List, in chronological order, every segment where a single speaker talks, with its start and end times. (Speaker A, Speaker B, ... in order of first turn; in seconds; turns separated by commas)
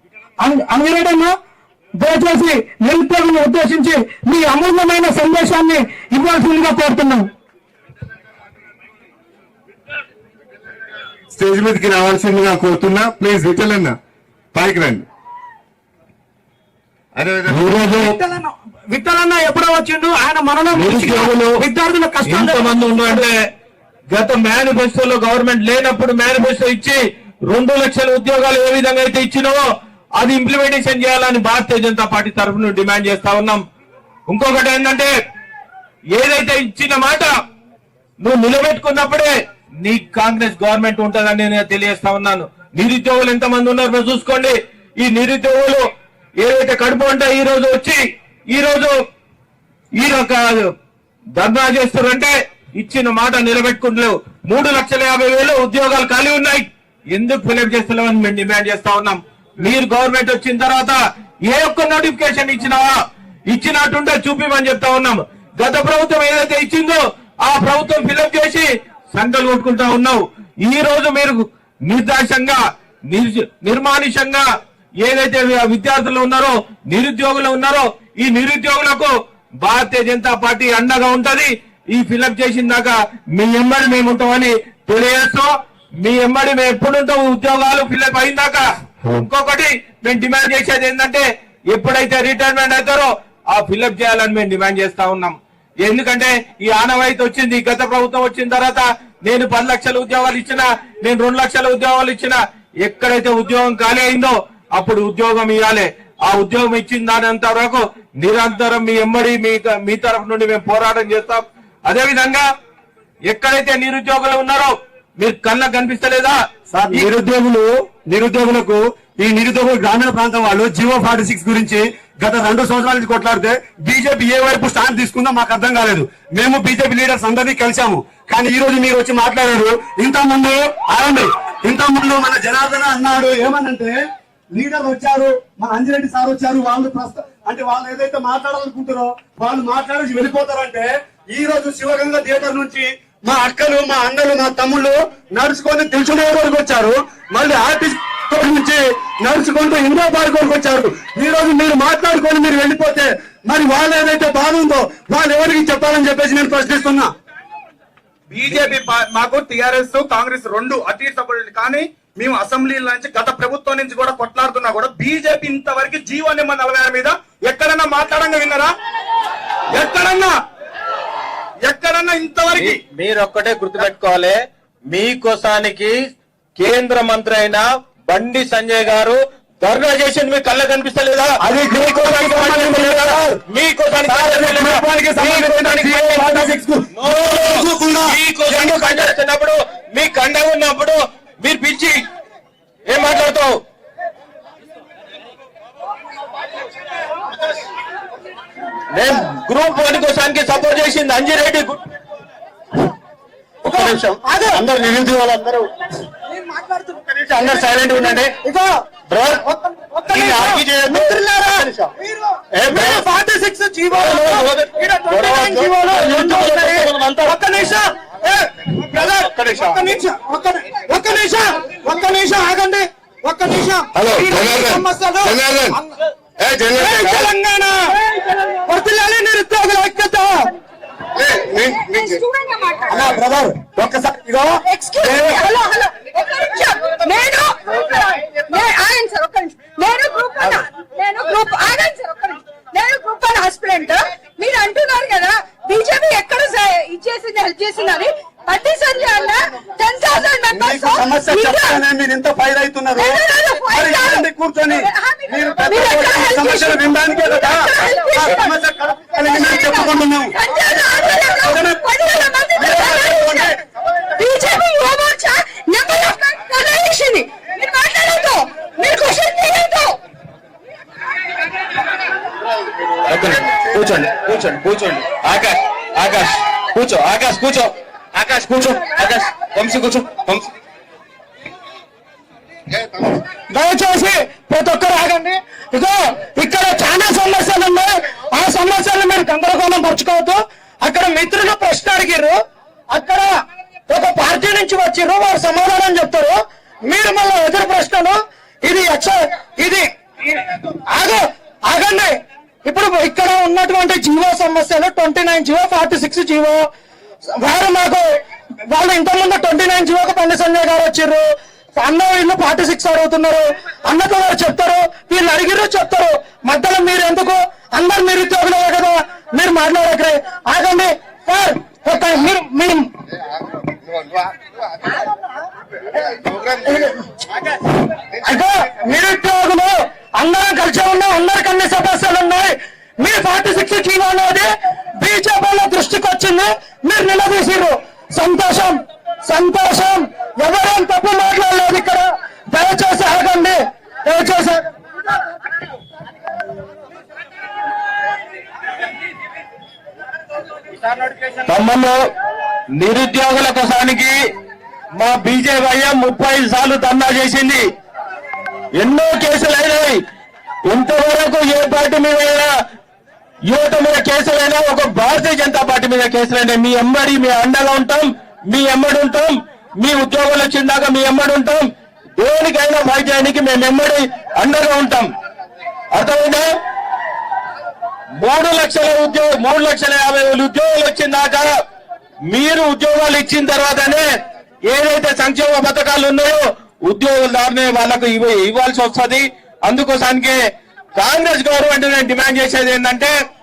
Speaker A: 0.4-1.3, Speaker A: 2.0-7.3, Speaker B: 11.3-14.0, Speaker B: 14.5-15.1, Speaker B: 17.2-17.7, Speaker C: 17.5-18.1, Speaker A: 17.9-23.1, Speaker C: 20.7-21.5, Speaker C: 22.3-23.4, Speaker C: 24.1-29.6, Speaker C: 30.2-33.6, Speaker C: 34.3-35.1, Speaker C: 36.1-37.3, Speaker C: 38.2-45.8, Speaker C: 46.4-48.0, Speaker C: 48.5-48.9, Speaker C: 50.0-50.7, Speaker C: 51.4-62.9, Speaker C: 63.5-74.5, Speaker C: 75.0-79.1, Speaker C: 79.6-85.5, Speaker C: 86.0-112.5, Speaker C: 113.3-116.4, Speaker D: 116.7-117.1, Speaker C: 116.9-117.8, Speaker D: 118.1-134.0, Speaker D: 134.5-157.1, Speaker E: 158.3-168.7, Speaker E: 169.7-170.3, Speaker E: 171.7-172.8, Speaker C: 172.5-174.3, Speaker C: 174.9-176.0, Speaker C: 176.6-192.0, Speaker D: 181.4-183.4, Speaker D: 184.1-189.1, Speaker C: 192.9-193.5, Speaker C: 198.9-201.8, Speaker A: 203.7-204.7, Speaker A: 206.6-208.7, Speaker C: 207.4-208.2, Speaker C: 209.1-209.4, Speaker A: 209.5-211.7, Speaker C: 210.4-210.8, Speaker C: 212.6-212.9, Speaker A: 212.7-225.8, Speaker C: 214.0-214.7, Speaker C: 215.2-217.3, Speaker C: 219.3-219.6, Speaker B: 223.9-225.8, Speaker B: 226.4-227.3, Speaker A: 226.8-227.8, Speaker A: 228.4-230.4, Speaker B: 231.2-232.0, Speaker F: 231.5-233.0, Speaker D: 232.9-235.4, Speaker F: 234.7-251.8, Speaker D: 250.5-253.2, Speaker F: 253.0-258.6, Speaker D: 253.7-260.3, Speaker F: 259.2-263.5, Speaker D: 261.4-261.8, Speaker D: 262.6-263.5, Speaker F: 264.1-270.0, Speaker C: 273.1-279.8, Speaker A: 283.5-292.4, Speaker A: 292.9-293.3, Speaker A: 293.9-306.6, Speaker A: 307.3-308.1, Speaker A: 308.7-322.9, Speaker A: 326.6-327.0, Speaker A: 328.2-344.6, Speaker C: 351.4-352.0, Speaker C: 352.8-354.1, Speaker C: 355.0-357.6, Speaker C: 358.8-360.0, Speaker C: 360.7-362.5, Speaker C: 363.5-371.6, Speaker C: 372.2-375.1, Speaker C: 375.9-376.5, Speaker C: 378.2-381.5, Speaker C: 382.3-384.1, Speaker C: 384.7-390.4, Speaker C: 391.0-393.1